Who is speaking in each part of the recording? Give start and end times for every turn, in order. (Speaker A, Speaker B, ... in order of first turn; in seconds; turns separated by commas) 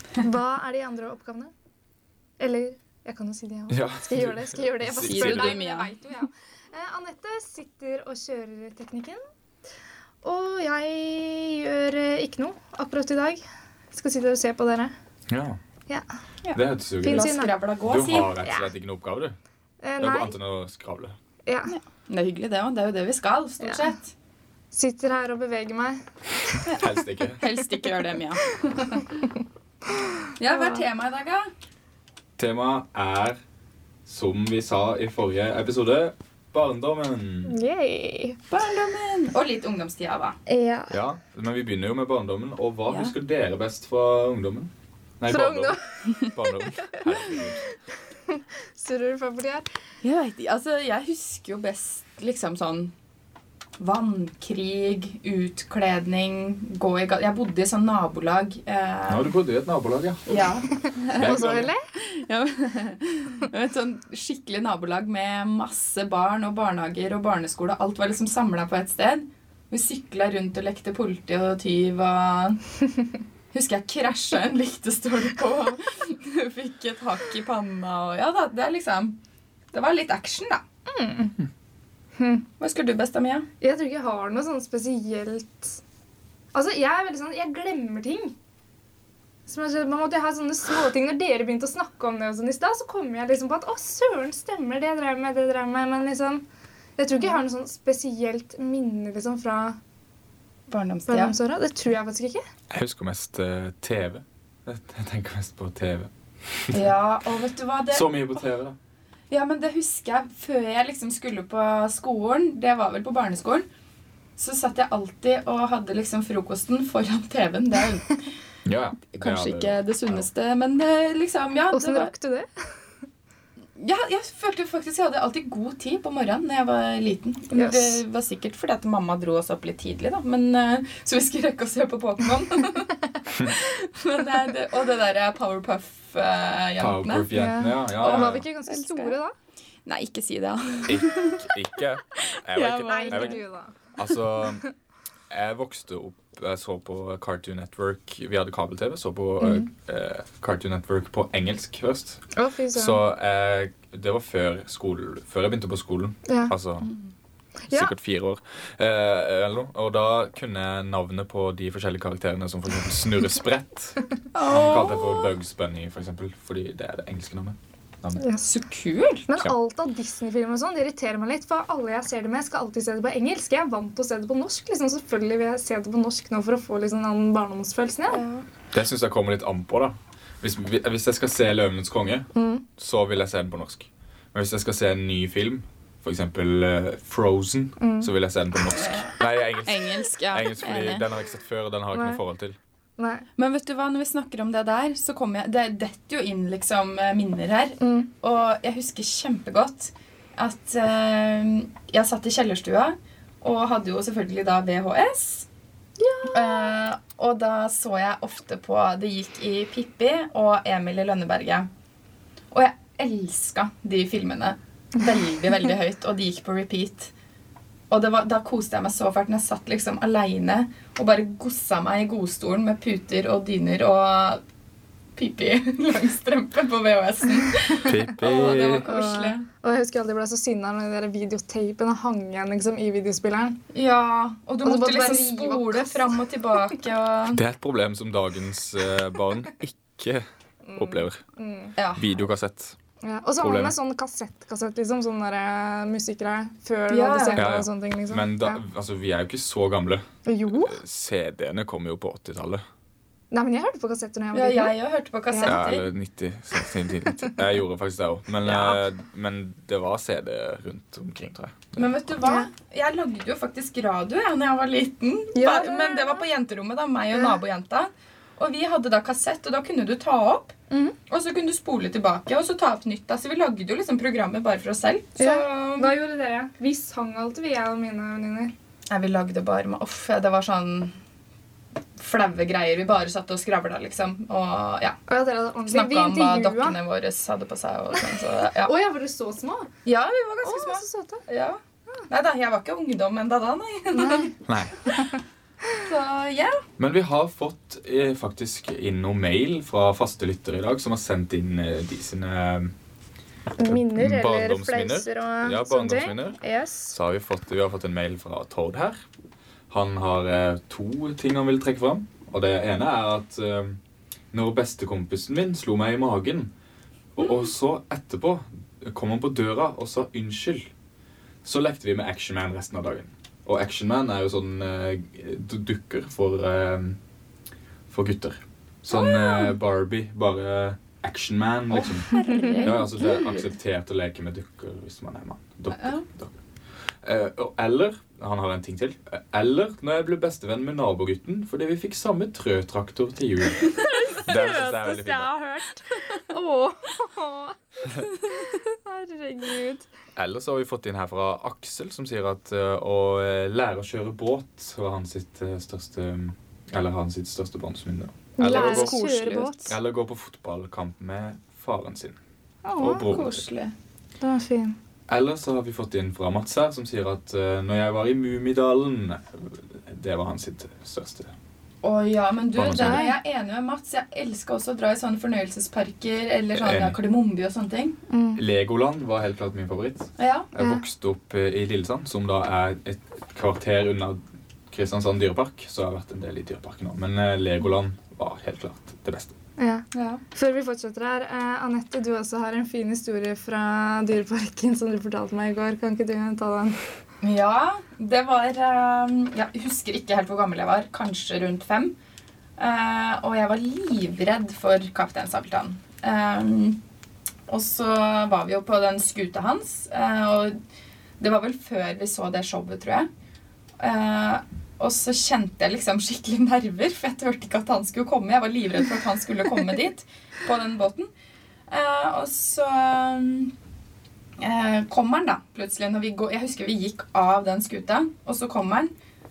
Speaker A: 0.2-1.5, Speaker A: 2.4-9.2, Speaker B: 3.7-5.6, Speaker C: 5.0-5.9, Speaker A: 10.2-14.9, Speaker B: 15.3-15.6, Speaker C: 16.4-18.4, Speaker B: 16.5-19.4, Speaker A: 17.0-17.5, Speaker A: 19.8-20.4, Speaker B: 20.0-21.2, Speaker A: 21.5-21.7, Speaker C: 21.7-24.1, Speaker A: 23.6-23.9, Speaker A: 24.7-26.6, Speaker C: 26.6-29.2, Speaker B: 26.8-27.4, Speaker A: 29.9-30.8, Speaker C: 30.4-31.5, Speaker B: 32.4-33.4, Speaker B: 34.0-37.5, Speaker A: 37.5-38.4, Speaker C: 38.5-40.4, Speaker A: 40.5-41.0, Speaker B: 40.9-47.7, Speaker C: 42.9-43.1, Speaker A: 45.3-47.4, Speaker A: 48.3-49.7, Speaker C: 50.0-52.9, Speaker C: 53.8-59.3, Speaker B: 59.1-60.5, Speaker C: 60.3-72.6, Speaker A: 60.8-61.8, Speaker B: 61.1-61.7, Speaker C: 73.5-79.2, Speaker C: 79.7-80.6, Speaker A: 80.9-81.4, Speaker A: 82.2-82.5, Speaker C: 82.6-83.5, Speaker A: 83.6-85.8, Speaker A: 86.5-88.3, Speaker A: 89.5-96.4, Speaker A: 97.0-99.8, Speaker C: 100.7-101.3, Speaker A: 101.1-102.4, Speaker B: 102.7-106.8, Speaker C: 106.7-108.2, Speaker B: 107.9-108.8, Speaker C: 109.3-113.7, Speaker C: 114.4-118.3, Speaker B: 118.7-120.3, Speaker C: 119.1-122.1, Speaker A: 121.7-122.5, Speaker C: 123.8-137.3, Speaker A: 127.5-128.0, Speaker B: 136.8-138.4, Speaker A: 137.3-139.3, Speaker C: 138.0-139.1, Speaker C: 139.9-141.5, Speaker B: 140.9-143.4, Speaker C: 142.2-143.4, Speaker A: 142.9-143.8, Speaker B: 144.0-144.6, Speaker B: 145.3-152.2, Speaker A: 149.4-149.7, Speaker A: 152.3-153.0, Speaker B: 152.7-156.9, Speaker A: 156.3-156.5, Speaker A: 157.7-157.9, Speaker B: 157.7-168.2, Speaker C: 164.3-165.3, Speaker A: 168.2-168.5, Speaker C: 168.4-169.3, Speaker A: 169.3-178.2, Speaker C: 178.1-178.4, Speaker B: 178.7-192.6, Speaker A: 182.3-182.7, Speaker A: 187.8-188.1, Speaker C: 188.7-191.1, Speaker A: 191.9-192.2, Speaker A: 193.0-193.2, Speaker C: 193.4-205.5, Speaker A: 197.8-198.1, Speaker A: 206.0-206.8, Speaker C: 206.3-211.7, Speaker C: 212.5-217.1, Speaker C: 217.9-224.4, Speaker C: 225.2-229.5, Speaker B: 227.8-228.9, Speaker A: 228.8-233.6, Speaker C: 233.7-237.4, Speaker A: 234.6-236.2, Speaker B: 237.3-240.2, Speaker A: 240.7-241.8, Speaker B: 240.8-241.2, Speaker C: 241.8-242.1, Speaker B: 242.0-242.8, Speaker A: 243.0-248.6, Speaker B: 243.4-243.8, Speaker C: 246.9-247.5, Speaker B: 247.4-252.6, Speaker A: 250.3-250.8, Speaker A: 253.3-254.8, Speaker C: 254.3-255.9, Speaker A: 255.3-255.6, Speaker B: 255.4-261.8, Speaker C: 258.4-258.8, Speaker C: 261.8-270.6, Speaker A: 265.3-266.2, Speaker A: 270.7-271.0, Speaker C: 271.1-275.9, Speaker A: 275.2-278.5, Speaker C: 278.9-280.9, Speaker C: 282.0-285.0, Speaker A: 285.1-286.8, Speaker C: 285.7-288.7, Speaker A: 288.6-289.7, Speaker C: 289.9-294.4, Speaker A: 290.4-291.2, Speaker A: 293.9-294.3, Speaker B: 294.5-294.9, Speaker C: 295.8-296.6, Speaker B: 296.8-302.7, Speaker A: 303.6-307.0, Speaker B: 303.6-306.4, Speaker B: 306.9-309.0, Speaker B: 309.7-313.8, Speaker B: 314.3-316.5, Speaker B: 317.2-320.7, Speaker B: 321.4-327.0, Speaker B: 327.9-336.4, Speaker C: 329.0-329.5, Speaker C: 331.7-333.5, Speaker A: 332.1-332.6, Speaker C: 335.8-336.1, Speaker B: 337.0-345.3, Speaker C: 343.7-344.0, Speaker A: 343.8-349.9, Speaker B: 350.2-359.0, Speaker A: 358.4-359.7, Speaker C: 358.4-359.6, Speaker B: 359.6-362.2, Speaker A: 362.6-363.1, Speaker B: 362.8-363.4, Speaker C: 362.9-363.7, Speaker A: 364.2-364.8, Speaker B: 365.1-371.3, Speaker C: 371.8-378.0, Speaker B: 372.6-373.0, Speaker A: 372.7-373.2, Speaker B: 376.6-377.0, Speaker A: 378.1-378.4, Speaker B: 378.4-389.4, Speaker C: 380.2-380.5, Speaker A: 380.6-380.8, Speaker A: 389.6-396.8, Speaker C: 389.9-390.2, Speaker C: 397.2-401.9, Speaker C: 402.6-406.8, Speaker C: 407.5-410.6, Speaker C: 411.2-413.1, Speaker C: 413.8-421.1, Speaker C: 421.7-423.5, Speaker C: 424.4-428.9